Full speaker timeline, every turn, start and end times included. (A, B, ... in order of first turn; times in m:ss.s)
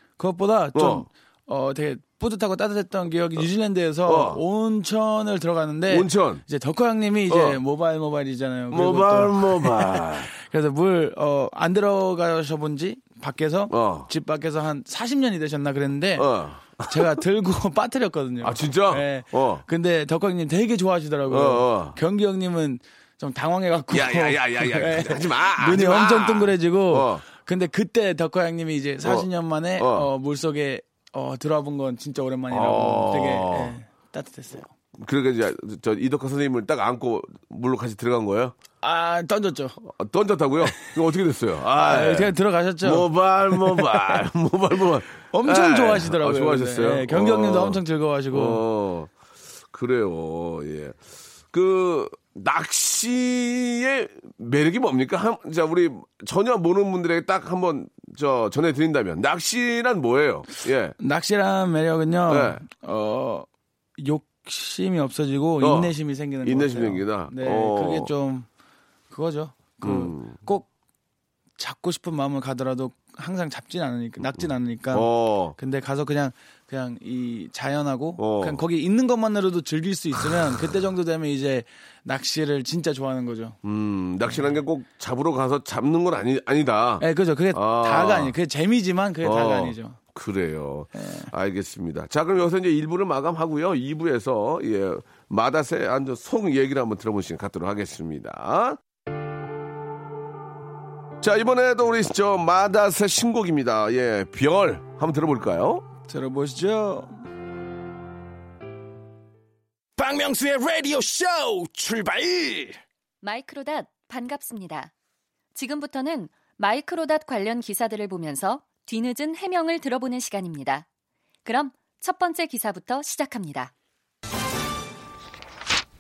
0:00.2-0:16.3 A
0:00.8-0:01.1 B
0:04.1-0:04.4 B
0:05.9-0:06.4 B
0:07.3-0:07.6 B
0:08.7-0:10.3 B
0:13.7-0:14.1 B
0:16.2-0:17.2 B
0:16.9-0:34.7 A
0:18.4-0:19.6 B
0:21.3-0:22.0 B
0:23.9-0:27.2 B
0:29.8-0:30.1 B
0:32.5-0:33.8 B
0:35.0-0:38.6 B
0:38.8-0:39.8 A
0:39.8-0:47.8 B
0:41.8-0:44.2 A
0:45.3-0:48.6 A
0:48.3-0:49.1 B
0:49.7-0:51.0 B
0:51.5-1:01.0 B
1:01.0-1:03.5 A
1:02.3-1:02.6 B
1:04.0-1:08.5 A
1:05.6-1:08.1 B
1:09.1-1:10.7 A
1:09.8-1:10.4 B
1:11.6-1:23.6 A
1:14.9-1:15.6 B
1:18.2-1:18.6 B
1:23.6-1:28.3 B
1:27.0-1:30.0 A
1:29.2-1:38.8 B
1:30.9-1:31.3 A
1:41.2-1:45.8 B
1:46.1-1:47.2 A
1:50.0-1:52.8 C
1:53.2-1:54.9 D
1:55.6-2:00.9 D
2:01.4-2:03.7 D